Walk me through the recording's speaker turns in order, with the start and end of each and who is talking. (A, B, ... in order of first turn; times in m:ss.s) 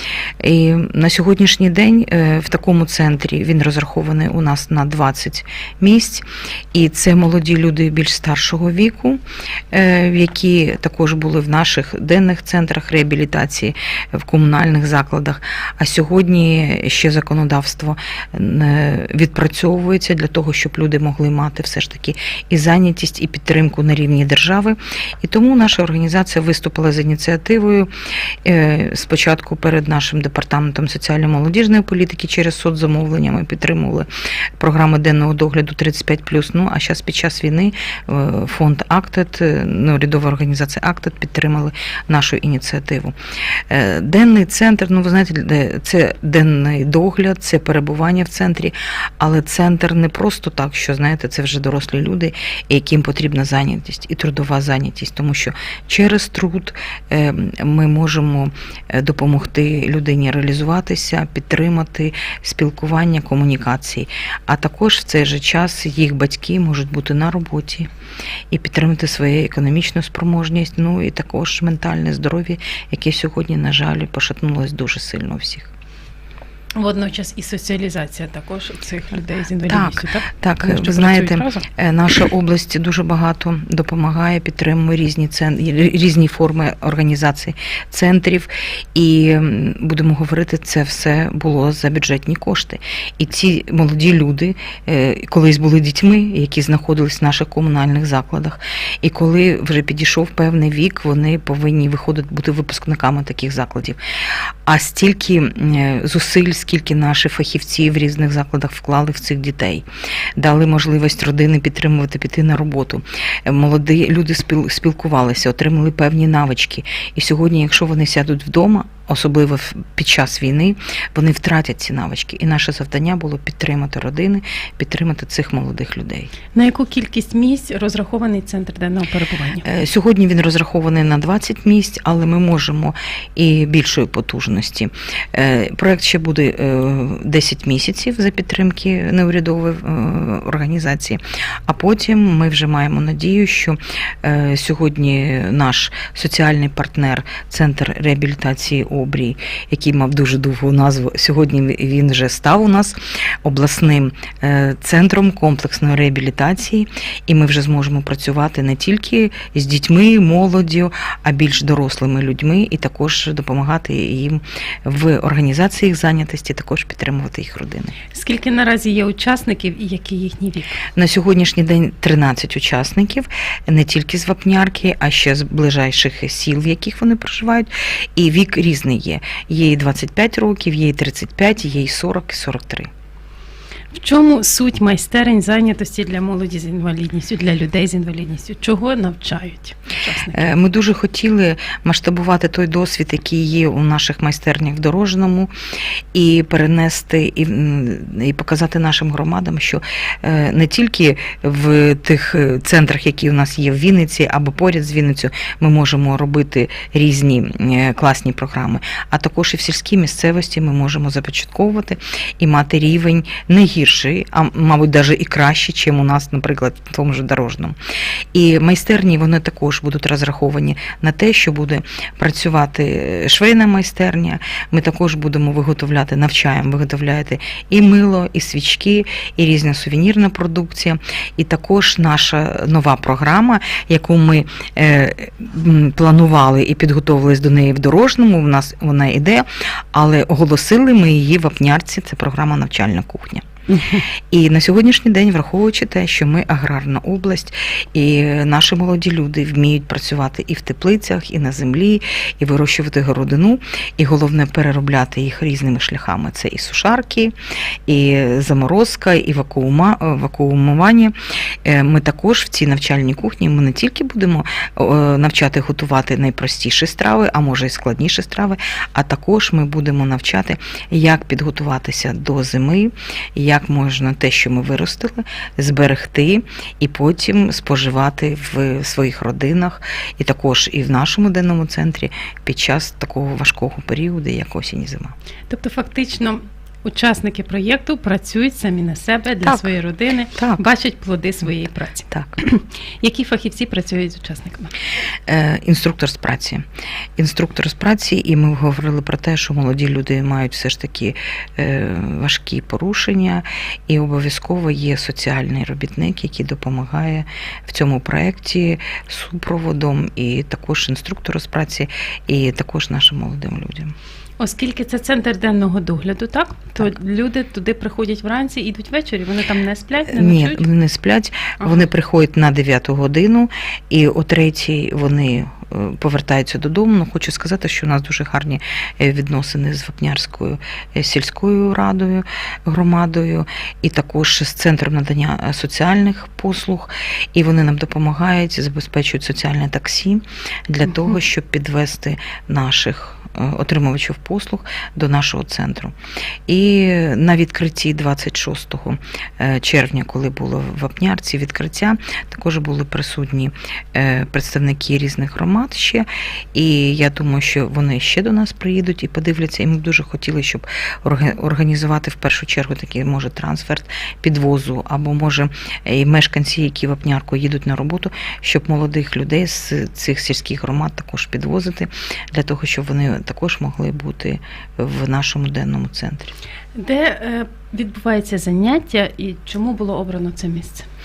0:00.4-0:27.9 A
0:28.4-0:34.1 A
0:34.6-0:43.1 A
0:43.7-1:07.9 A
1:08.5-1:15.7 A
1:16.8-1:21.6 B
1:19.7-1:44.0 A
1:44.6-1:49.8 A
1:50.4-2:06.3 A
2:06.5-2:09.6 B
2:09.6-2:48.0 A
2:48.1-2:50.8 B
2:50.9-3:02.9 A
3:03.9-3:10.5 B
3:10.3-3:15.5 A
3:16.1-3:37.7 A
3:38.3-4:03.4 A
4:03.7-4:04.0 B
4:04.3-4:17.3 A
4:17.9-4:21.1 A
4:21.6-4:45.1 A
4:45.5-4:54.7 B
4:49.4-4:49.7 A
4:50.4-4:50.6 A
4:52.1-4:52.4 A
4:55.3-4:56.6 A
4:57.2-5:13.9 A
5:14.4-5:20.6 B
5:20.1-5:45.9 A
5:21.6-5:21.9 B
5:46.5-6:16.3 A
6:16.8-6:20.8 B